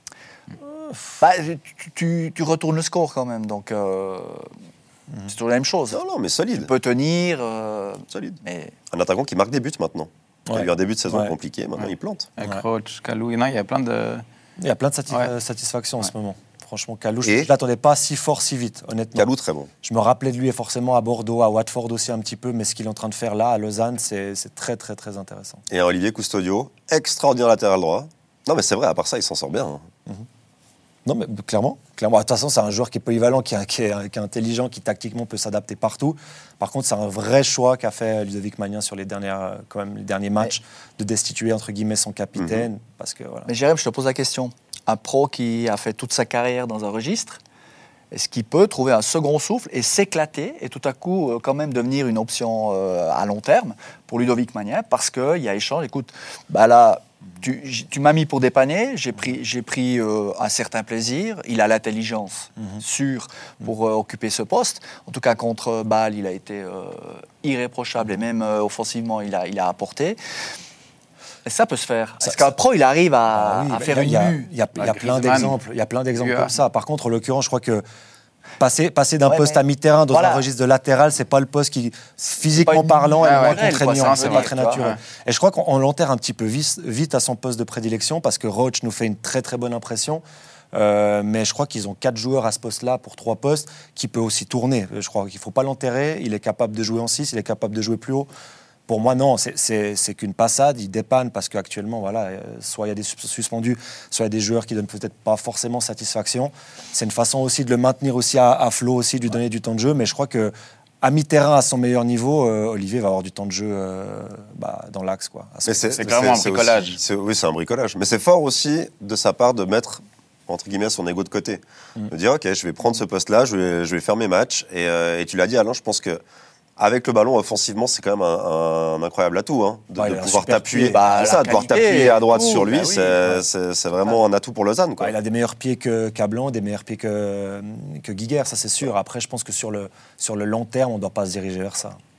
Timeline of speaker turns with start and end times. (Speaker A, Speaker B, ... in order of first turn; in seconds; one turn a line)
Speaker A: 0.6-1.1
Speaker B: 1.2-4.5
Speaker B: 5.2-6.0
Speaker C: 5.9-6.7
Speaker B: 6.5-8.7
Speaker C: 8.1-8.4
Speaker C: 8.9-12.3
Speaker A: 10.5-11.3
Speaker D: 11.8-14.2
Speaker A: 14.6-25.6
Speaker C: 17.2-17.5
Speaker C: 19.1-19.7
Speaker C: 25.7-29.8
Speaker A: 31.1-43.5
Speaker C: 42.4-42.6
Speaker B: 43.5-47.4
Speaker B: 48.1-70.2
Speaker B: 71.4-74.5
Speaker A: 72.2-72.5
Speaker A: 73.3-77.8
Speaker D: 74.8-75.5
Speaker D: 76.2-76.5
Speaker A: 78.6-90.2
Speaker B: 79.2-80.4
Speaker B: 82.5-84.8
Speaker D: 83.2-85.0
Speaker A: 90.7-98.3
Speaker A: 98.9-116.4
Speaker C: 115.7-126.2
Speaker D: 116.0-117.0
Speaker C: 126.8-135.1
Speaker A: 129.9-131.0
Speaker B: 130.8-133.2
Speaker A: 133.1-133.4
Speaker A: 135.0-142.0